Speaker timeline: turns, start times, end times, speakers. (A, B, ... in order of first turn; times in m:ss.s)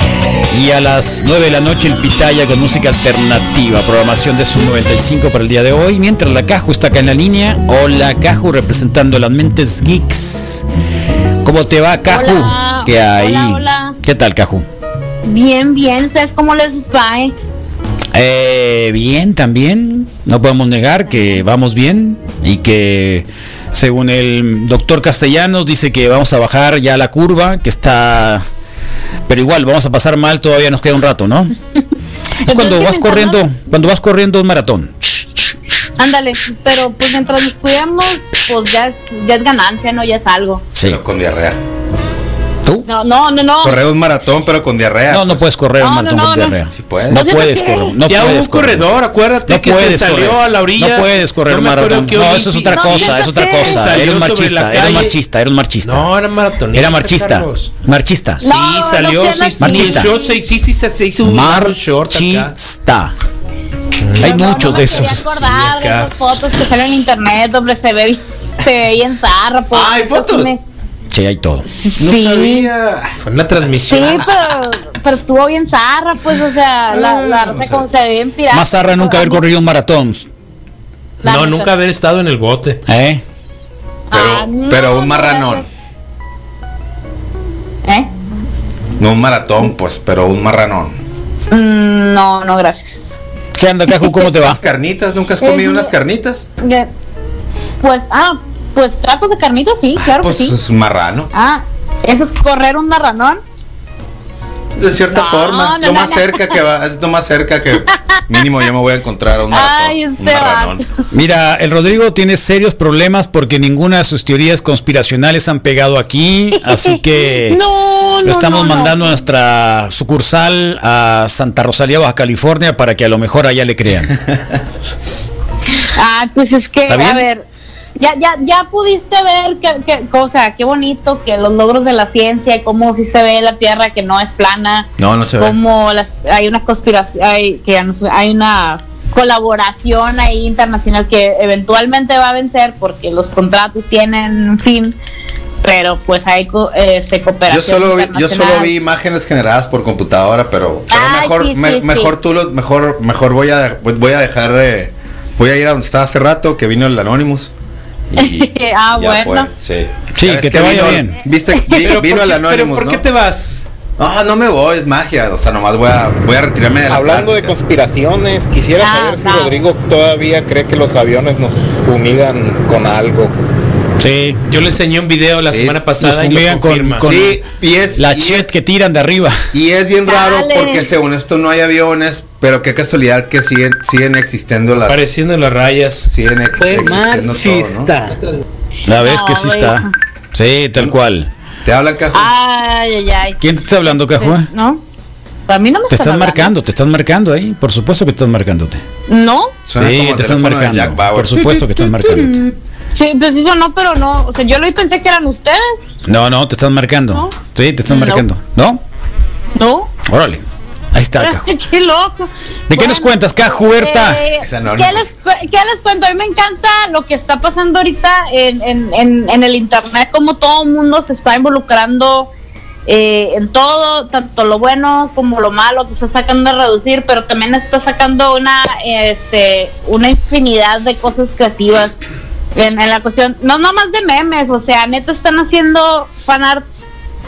0:00.5-0:10.6 A
0:11.4-0:14.6 A
0:12.1-0:14.0 B
0:15.2-0:17.3 B
0:18.1-0:28.4 A
0:29.3-0:31.5 A
0:32.4-0:33.4 B
0:32.4-0:34.9 A
0:36.0-0:40.6 B
0:40.7-0:41.0 A
0:40.8-0:41.6 C
0:42.8-0:43.8 B
0:43.6-0:45.5 C
0:45.1-0:48.9 A
0:45.8-0:46.5 B
0:46.7-0:47.4 C
0:47.1-0:48.0 B
0:48.0-0:55.2 D
0:49.4-0:56.1 A
0:52.7-0:53.9 B
0:55.8-0:57.7 D
0:56.7-0:58.4 A
0:58.4-1:00.4 B
0:58.4-1:02.5 D
0:59.6-1:00.1 A
1:01.2-1:03.1 A
1:04.0-1:06.3 D
1:04.2-1:05.4 A
1:04.2-1:10.6 B
1:09.7-1:10.5 C
1:11.1-1:11.6 A
1:11.7-1:12.7 B
1:12.0-1:13.2 C
1:13.2-1:14.3 D
1:13.8-1:19.4 B
1:16.9-1:17.8 C
1:18.5-1:20.3 A
1:21.2-1:21.7 B
1:21.2-1:22.8 D
1:22.9-1:23.2 A
1:24.1-1:25.6 B
1:24.1-1:25.7 C
1:29.0-1:30.9 C
1:31.5-1:33.2 B
1:33.6-1:34.6 A
1:34.2-1:36.4 C
1:35.4-1:35.9 B
1:36.6-1:36.9 B
1:37.8-1:40.6 B
1:39.9-1:41.3 C
1:41.3-1:43.4 B
1:44.8-1:50.8 C
1:45.1-1:46.6 B
1:47.9-1:48.2 B
1:49.5-1:50.8 B
1:51.1-1:57.6 A
1:56.6-1:59.1 B
1:58.2-2:04.2 A
2:05.8-2:07.4 B
2:06.9-2:07.2 A
2:08.0-2:25.0 B
2:15.0-2:15.6 C
2:25.6-2:28.7 B
2:27.5-2:37.5 C
2:30.9-2:32.1 B
2:38.1-2:43.0 C
2:38.2-2:39.5 B
2:40.1-2:41.2 A
2:41.5-2:41.8 B
2:41.8-2:43.7 D
2:44.0-2:47.5 C
2:46.9-2:53.3 E
2:48.8-2:49.6 B
2:54.0-2:54.4 A
2:54.5-2:57.2 D
2:55.5-2:55.8 C
2:56.0-2:57.4 A
2:57.0-2:58.6 C
2:58.0-2:59.4 A
2:59.5-3:05.1 C
3:00.1-3:00.9 B
3:04.8-3:08.2 D
3:06.0-3:08.0 C
3:08.9-3:11.3 A
3:08.9-3:09.9 B
3:11.6-3:12.3 C
3:12.1-3:14.8 B
3:13.4-3:14.5 A
3:15.5-3:16.5 B
3:15.9-3:18.8 A
3:19.1-3:19.5 B
3:19.7-3:22.4 C
3:19.7-3:22.4 A
3:22.9-3:25.8 B
3:26.1-3:28.8 A
3:27.9-3:28.2 B
3:29.6-3:29.9 B
3:30.0-3:31.5 A
3:31.2-3:42.3 B
3:32.7-3:34.2 A
3:34.4-3:35.1 C
3:42.9-3:52.0 B
3:52.5-3:56.7 B